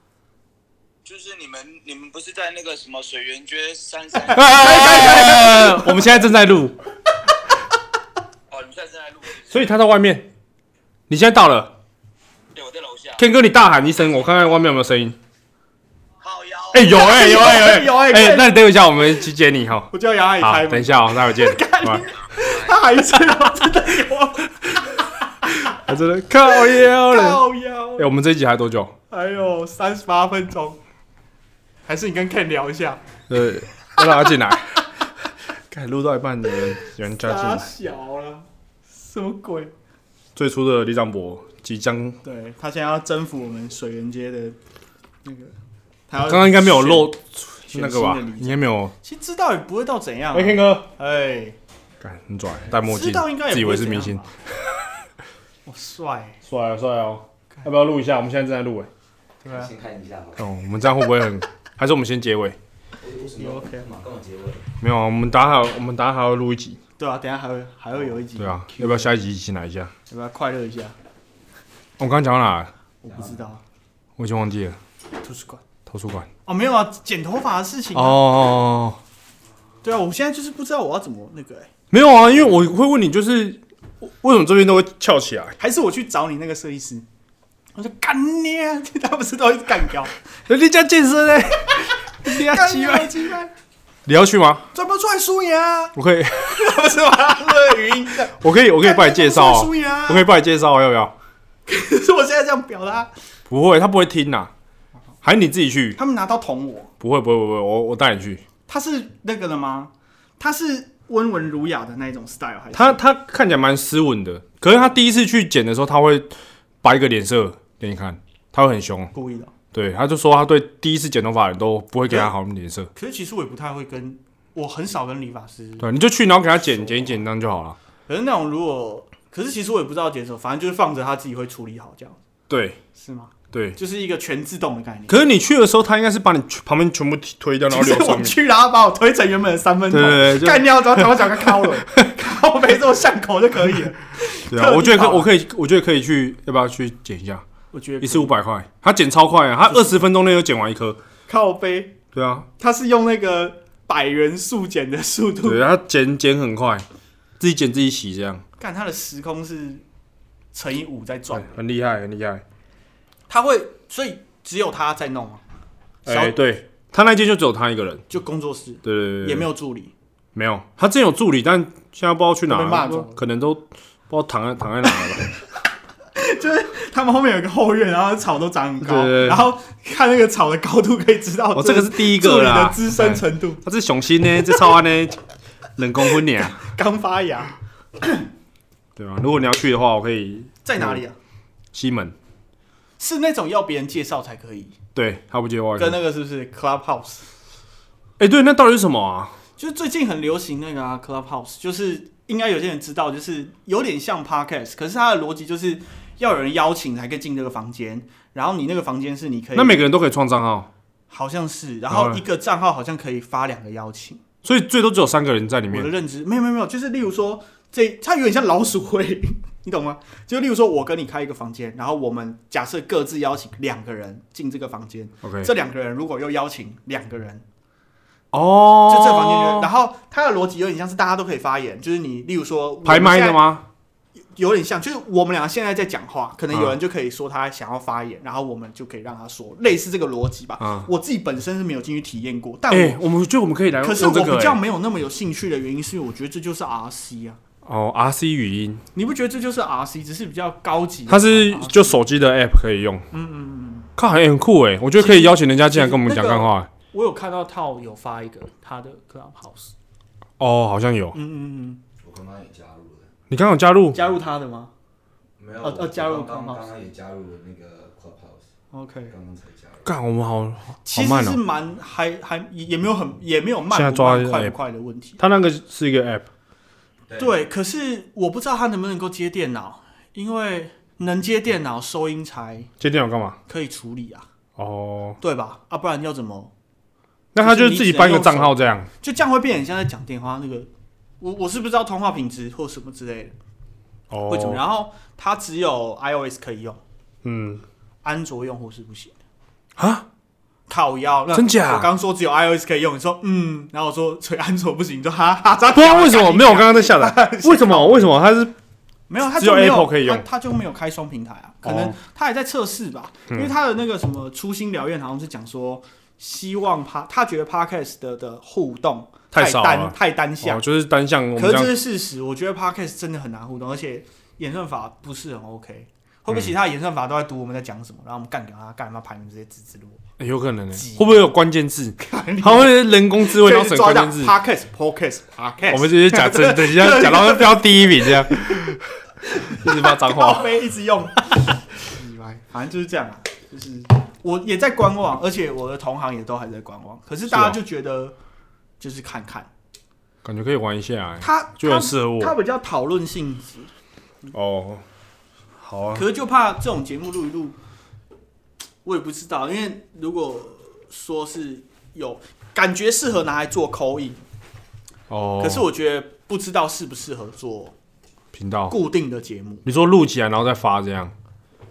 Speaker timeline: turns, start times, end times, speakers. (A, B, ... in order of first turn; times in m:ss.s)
0:01.0-0:05.4 A
0:04.3-0:06.8 B
0:04.5-0:06.0 C
0:08.5-0:09.6 A
0:09.5-0:10.3 B
0:11.1-0:11.7 B
0:12.5-0:13.2 A
0:13.2-0:15.2 B
0:16.2-0:16.9 A
0:16.7-0:22.1 B
0:16.8-0:18.7 C
0:19.9-0:25.8 C
0:25.6-0:27.4 B
0:26.4-0:28.1 C
0:28.0-0:28.9 B
0:29.1-0:30.8 C
0:31.9-0:33.0 C
0:33.3-0:37.7 B
0:37.2-0:39.7 C
0:40.4-0:42.2 B
0:42.2-0:44.6 C
0:45.2-0:45.5 C
0:46.1-0:47.1 C
0:46.2-0:48.9 B
0:47.7-0:51.6 C
0:50.3-0:50.9 B
0:52.0-0:54.9 B
0:52.8-0:54.3 C
0:55.6-0:56.4 C
0:56.4-0:58.9 B
0:59.4-0:59.7 C
0:59.5-1:00.4 D
1:00.4-1:02.6 B
1:03.0-1:04.7 D
1:03.3-1:03.9 C
1:04.8-1:06.8 B
1:07.0-1:09.1 C
1:08.4-1:09.9 B
1:10.1-1:10.9 C
1:12.0-1:12.7 B
1:13.0-1:13.6 C
1:14.2-1:14.8 B
1:15.2-1:15.6 C
1:15.8-1:16.3 B
1:16.4-1:18.2 C
1:17.9-1:19.0 B
1:19.8-1:21.7 C
1:21.9-1:25.6 B
1:25.6-1:27.0 C
1:27.7-1:30.1 C
1:30.5-1:33.3 B
1:31.8-1:33.5 C
1:34.0-1:34.7 B
1:34.7-1:36.0 C
1:35.9-1:36.8 B
1:36.5-1:40.3 C
1:38.3-1:41.1 B
1:41.6-1:43.1 C
1:43.5-1:44.5 B
1:45.2-1:46.0 B
1:45.9-1:46.9 C
1:47.0-1:48.4 B
1:48.7-1:53.0 C
1:52.7-1:56.3 B
1:56.8-1:59.1 B
1:59.1-1:59.5 C
1:59.7-2:02.9 B
2:02.1-2:02.3 C
2:02.9-2:05.9 C
2:05.8-2:07.8 B
2:08.1-2:12.2 C
2:12.5-2:12.8 B
2:12.9-2:15.2 C
2:13.5-2:13.8 B
2:15.1-2:18.4 B
2:17.7-2:25.3 C
2:19.9-2:22.1 B
2:24.5-2:27.4 B
2:27.7-2:28.3 C
2:28.0-2:31.0 B
2:31.3-2:32.0 C
2:32.1-2:32.5 B
2:32.6-2:35.6 C
2:35.4-2:36.8 B
2:37.4-2:38.4 B
2:38.6-2:39.8 C
2:40.5-2:41.5 C
2:41.3-2:42.4 B
2:43.3-2:45.4 C
2:46.0-2:48.0 B
2:46.1-2:46.4 C
2:48.1-2:49.9 C
2:48.8-2:49.5 B
2:50.3-2:55.2 B
2:52.5-2:53.2 C
2:56.1-3:03.6 C
2:58.8-2:59.4 B
3:01.5-3:05.2 B
3:05.8-3:06.7 B
3:06.4-3:08.2 C
3:09.0-3:11.0 B
3:10.6-3:11.2 C
3:11.7-3:12.1 B
3:13.0-3:14.8 C
3:14.9-3:16.0 B
3:15.8-3:17.2 C
3:18.2-3:19.4 B
3:19.6-3:29.8 C
3:29.5-3:30.7 B
3:31.1-3:34.2 C
3:31.9-3:32.2 B
3:34.4-3:35.9 B
3:35.7-3:47.4 C
3:45.2-3:45.5 B
3:48.3-3:49.7 B
3:48.8-3:53.5 C
3:52.8-3:53.6 B
3:54.3-4:03.0 C
3:56.5-3:56.8 B
4:00.6-4:00.9 B
4:02.7-4:04.6 B
4:03.8-4:07.4 C
4:07.6-4:08.8 B
4:08.9-4:12.0 C
4:11.1-4:13.0 B
4:13.1-4:13.9 C
4:14.0-4:16.7 B
4:15.0-4:19.7 C
4:20.4-4:21.2 B
4:21.1-4:21.8 C
4:22.0-4:23.1 D
4:23.3-4:24.0 B
4:23.9-4:24.7 C
4:25.4-4:28.5 D
4:25.6-4:26.7 C
4:28.7-4:29.1 C
4:29.1-4:29.9 D
4:29.8-4:31.4 B
4:30.8-4:35.2 C
4:33.7-4:34.5 B
4:35.2-4:36.3 B
4:37.1-4:37.4 D
4:37.2-4:42.7 C
4:42.8-4:43.4 B
4:43.5-4:44.2 C
4:44.6-4:45.2 B
4:45.2-4:46.5 C
4:47.3-4:48.9 B
4:47.4-4:50.7 C
4:51.2-4:53.3 C
4:54.1-4:54.6 B
4:54.3-4:56.8 C
4:57.2-4:57.6 B
4:58.0-4:59.1 C
4:59.8-5:00.0 B
5:00.7-5:08.2 C
5:01.3-5:01.9 B
5:05.7-5:08.5 B
5:09.1-5:20.6 C
5:09.4-5:10.2 B
5:11.6-5:12.0 B
5:19.3-5:21.8 B
5:21.4-5:30.0 C
5:30.2-5:34.3 B
5:30.7-5:31.2 C
5:32.0-5:48.1 C
5:35.7-5:40.6 B
5:47.3-5:47.6 B
5:48.8-5:49.5 C
5:50.2-5:52.4 B
5:51.2-5:53.7 C
5:54.3-5:54.8 B
5:55.6-5:56.0 B
5:55.9-5:57.6 C
5:58.8-6:04.2 C
6:05.1-6:05.7 B
6:05.4-6:07.7 C
6:08.3-6:08.8 B
6:08.7-6:09.6 C
6:09.6-6:11.1 B